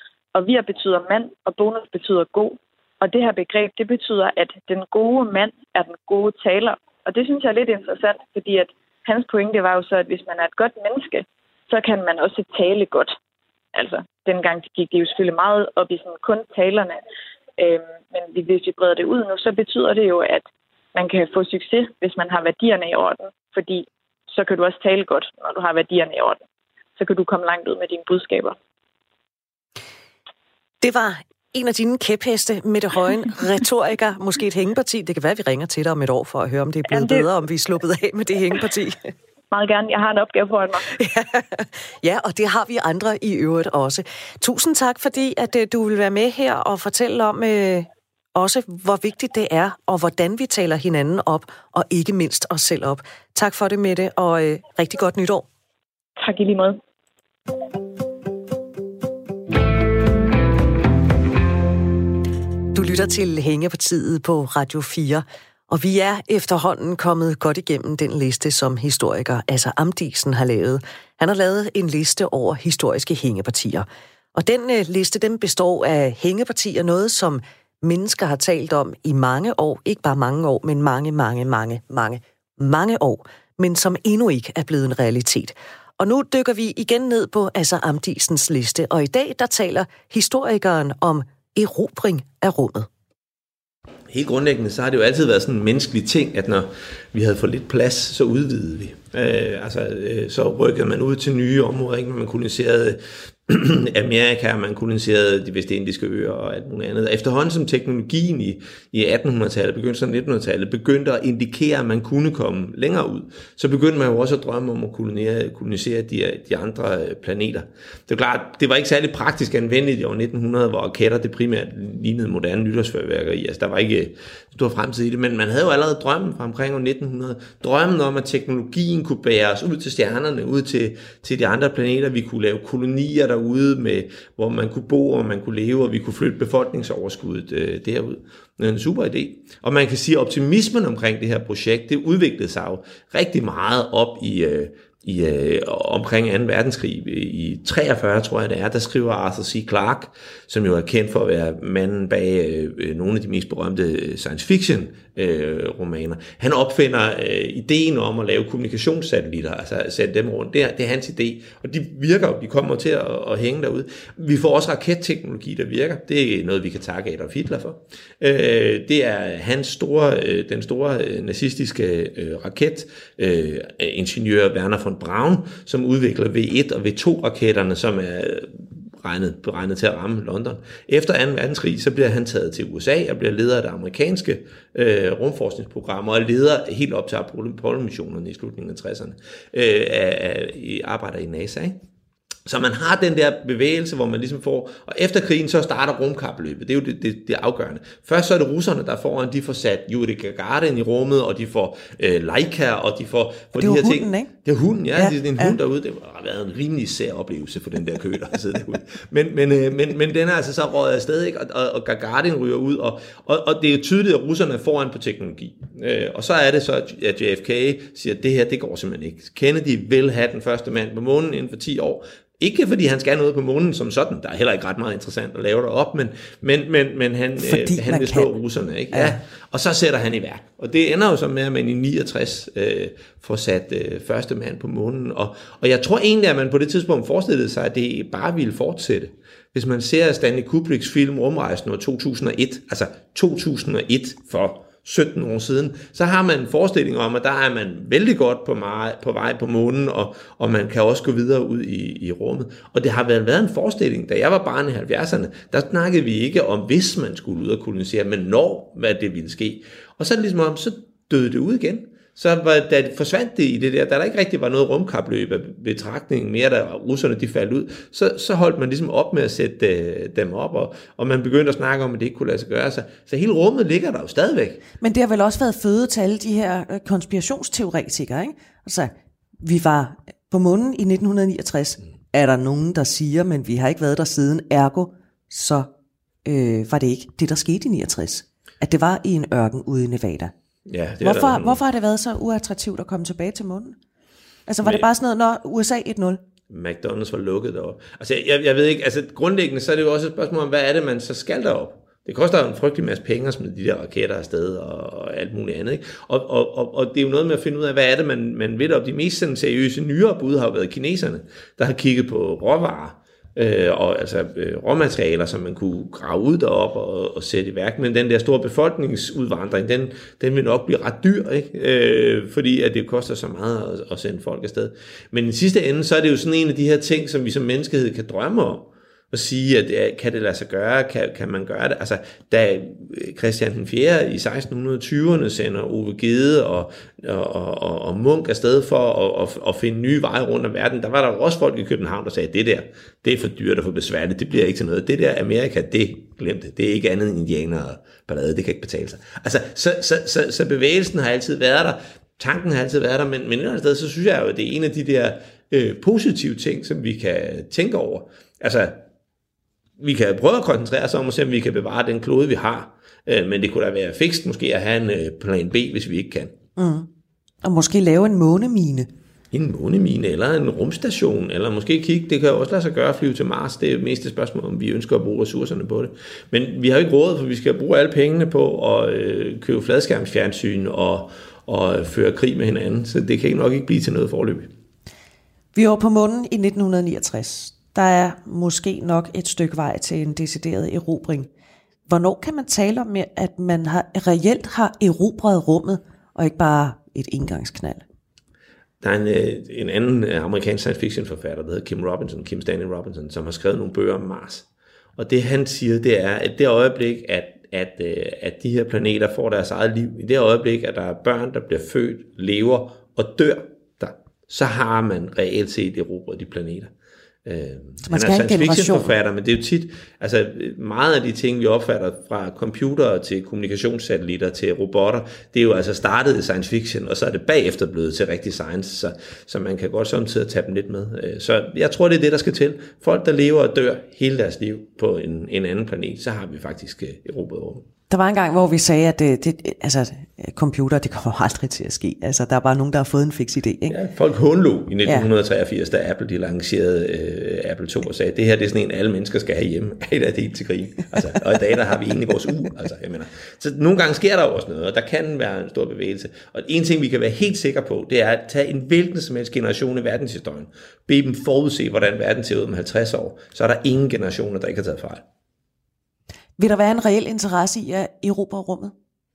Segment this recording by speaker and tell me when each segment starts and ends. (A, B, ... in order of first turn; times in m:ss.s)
0:00.4-0:13.2 A
0:13.8-0:17.0 A
0:17.6-0:26.4 A
0:27.0-0:28.6 A
0:30.8-0:39.1 B
0:36.9-0:37.2 A
0:39.5-0:40.9 A
0:40.9-0:55.5 B
0:56.2-0:56.8 A
1:02.7-1:32.9 B
1:34.1-3:11.8 C
3:12.5-4:34.6 C
3:23.6-3:24.3 B
3:25.0-3:25.6 B
3:47.4-3:48.3 B
3:48.9-3:49.2 B
4:34.8-4:45.7 B
4:46.2-4:50.3 B
4:50.7-4:51.6 C
4:51.0-4:53.8 B
4:54.5-4:56.2 B
4:54.6-4:54.9 C
4:56.5-5:58.8 C
5:59.8-6:06.3 C
6:06.6-6:06.9 B
6:07.4-6:08.9 B
6:09.3-6:24.5 C
6:25.6-6:31.3 B
6:31.9-6:37.8 B
6:38.8-6:44.5 C
6:45.0-6:56.7 C
6:57.2-7:17.7 C
6:57.8-6:58.9 B
7:17.9-7:23.8 B
7:23.7-7:45.0 C
7:46.4-7:48.7 B